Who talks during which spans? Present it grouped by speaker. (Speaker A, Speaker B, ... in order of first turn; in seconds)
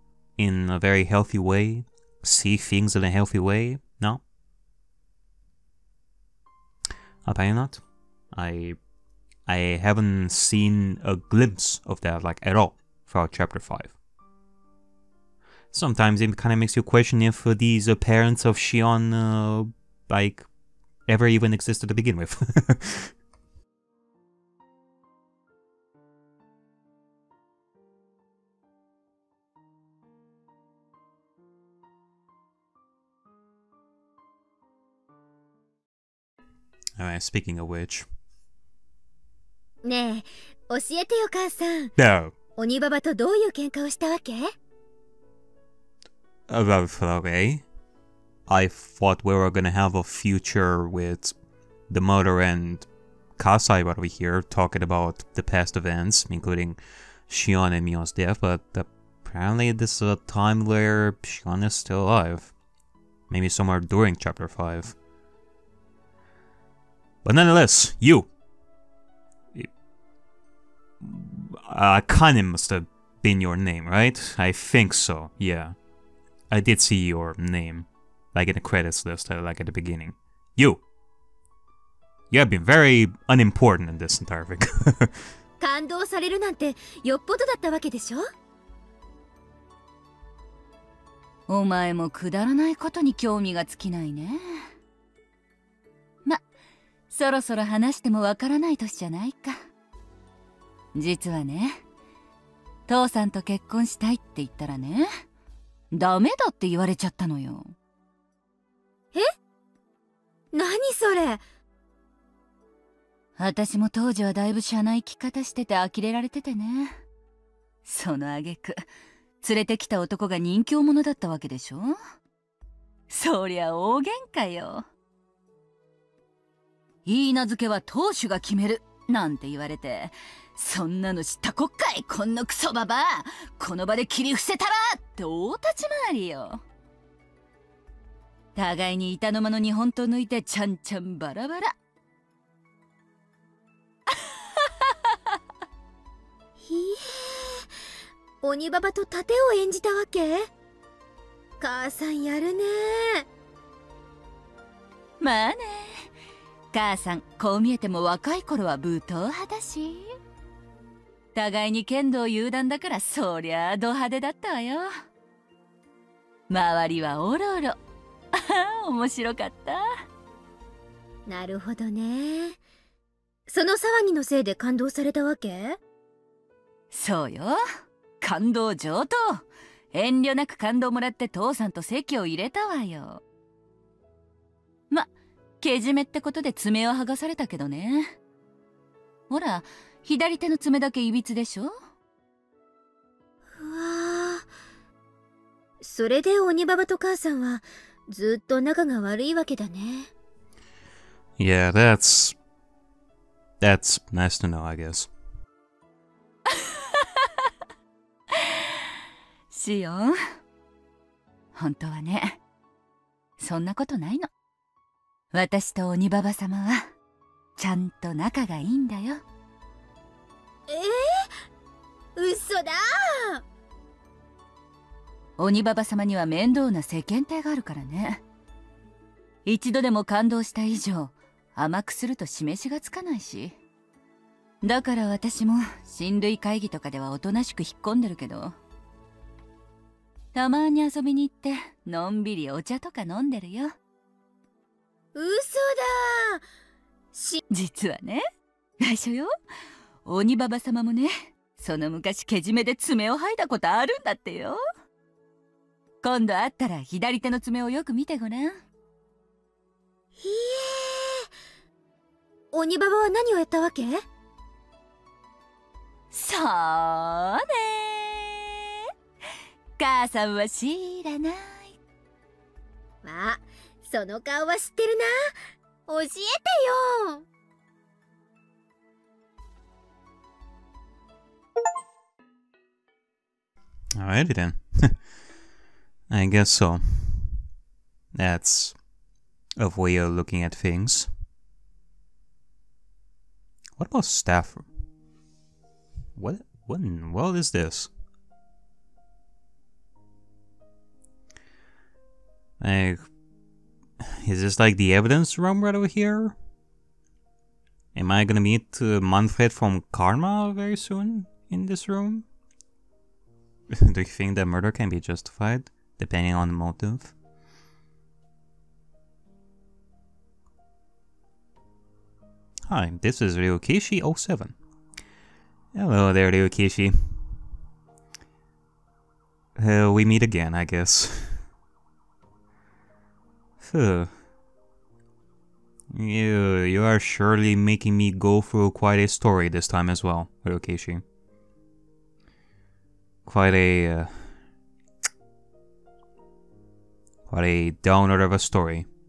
Speaker A: 0.4-4.2, 7.2-7.8, 8.3-8.8, 9.4-13.9, 15.7-20.5, 21.1-23.1, 37.0-38.1, 42.0-42.3, 46.5-47.6, 48.5-51.3, 51.9-62.5, 63.3-65.0, 67.2-68.3, 71.0-75.8, 76.5-80.8, 82.3-85.2, 201.4-202.3, 203.6-205.1, 283.9-285.0, 286.1-287.4, 288.1-288.8, 289.6-291.1, 293.8-294.7, 296.1-297.9, 302.6-303.1, 304.0-306.4, 307.9-312.2, 313.7-317.1, 322.7-324.6, 325.7-327.2, 329.5-331.4, 333.6-334.1, 335.9-341.0, 343.2-344.3, 347.3-348.9
Speaker B: 39.8-41.9, 42.6-44.5, 85.6-88.3, 110.5-111.4, 146.6-147.7, 148.4-150.5, 151.6-153.2, 171.3-172.6, 173.5-175.8, 193.5-194.5, 195.8-200.1, 220.7-221.3, 222.2-223.4, 245.1-246.4, 247.1-247.4, 260.2-261.3, 262.5-264.0, 273.0-275.3, 275.9-277.2
Speaker C: 91.5-94.7, 97.1-99.6, 100.9-101.8, 102.9-105.1, 105.9-107.7, 113.4-117.0, 117.8-118.8, 119.4-122.0, 123.1-124.8, 127.0-136.6, 138.5-141.7, 155.2-156.1, 156.7-160.1, 161.3-164.9, 166.5-167.8, 168.3-169.8, 176.9-177.6, 178.2-183.2, 184.9-188.1, 189.3-191.7, 209.5-210.2, 211.5-212.4, 213.4-214.3, 215.3-216.9, 217.6-219.2, 225.4-228.2, 229.4-233.6, 234.6-238.6, 240.3-243.8, 247.5-248.2, 248.8-249.3, 250.0-254.6, 256.0-258.6, 266.1-268.4, 269.8-271.8